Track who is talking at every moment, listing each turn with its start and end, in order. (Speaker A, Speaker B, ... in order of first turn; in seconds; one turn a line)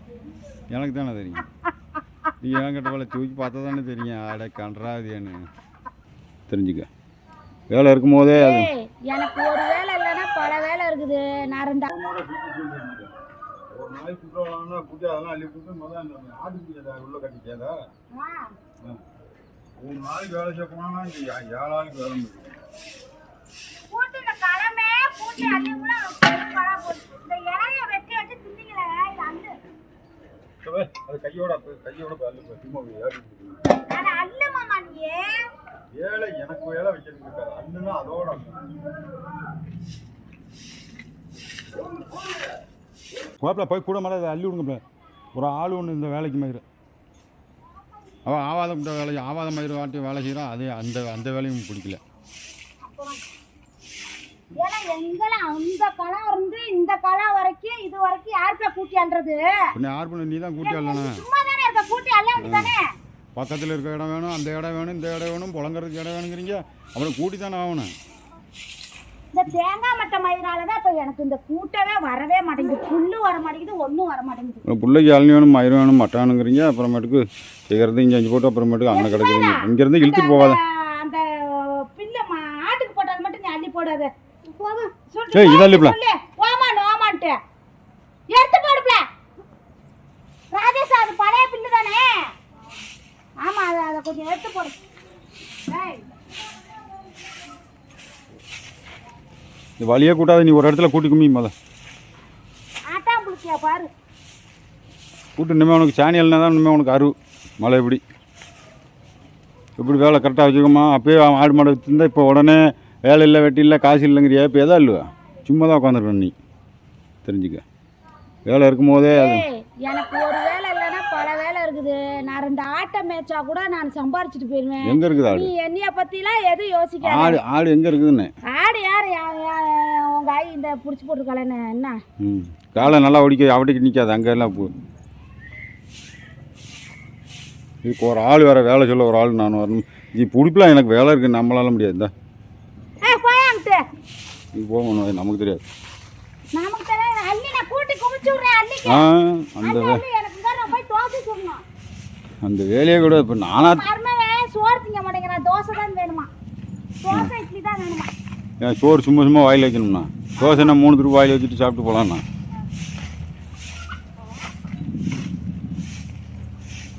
Speaker A: 0.7-1.4
Speaker A: 2.4-5.4
Speaker A: 6.5-6.9
Speaker A: 7.7-8.7
Speaker B: 8.4-11.9
Speaker A: 11.9-13.1
Speaker A: 13.7-17.8
Speaker B: 18.1-18.6
Speaker A: 19.8-22.6
Speaker B: 23.9-29.6
Speaker A: 30.6-33.6
Speaker B: 33.9-35.4
Speaker A: 36.0-38.7
Speaker A: 43.4-44.8
Speaker A: 45.4-46.6
Speaker A: 48.3-52.0
Speaker B: 52.8-53.2
Speaker B: 54.6-59.7
Speaker A: 59.8-61.2
Speaker B: 60.6-62.9
Speaker A: 62.4-62.7
Speaker A: 63.4-67.9
Speaker B: 69.3-74.6
Speaker A: 74.7-80.6
Speaker B: 78.9-87.4
Speaker A: 85.3-86.0
Speaker B: 88.3-89.1
Speaker B: 90.5-92.3
Speaker B: 93.4-94.8
Speaker B: 95.7-96.1
Speaker A: 99.8-101.5
Speaker B: 102.9-103.9
Speaker A: 105.4-108.0
Speaker A: 109.8-116.3
Speaker A: 117.2-117.6
Speaker A: 118.5-119.5
Speaker B: 119.1-127.4
Speaker A: 124.8-125.5
Speaker A: 127.0-128.3
Speaker B: 128.4-132.0
Speaker A: 132.2-134.7
Speaker A: 137.8-142.1
Speaker B: 143.0-143.8
Speaker A: 144.5-145.7
Speaker B: 146.6-149.1
Speaker A: 148.9-150.0
Speaker B: 149.6-151.6
Speaker A: 152.4-153.8
Speaker B: 153.6-156.3
Speaker B: 157.0-158.1
Speaker A: 158.6-162.2
Speaker B: 160.4-160.8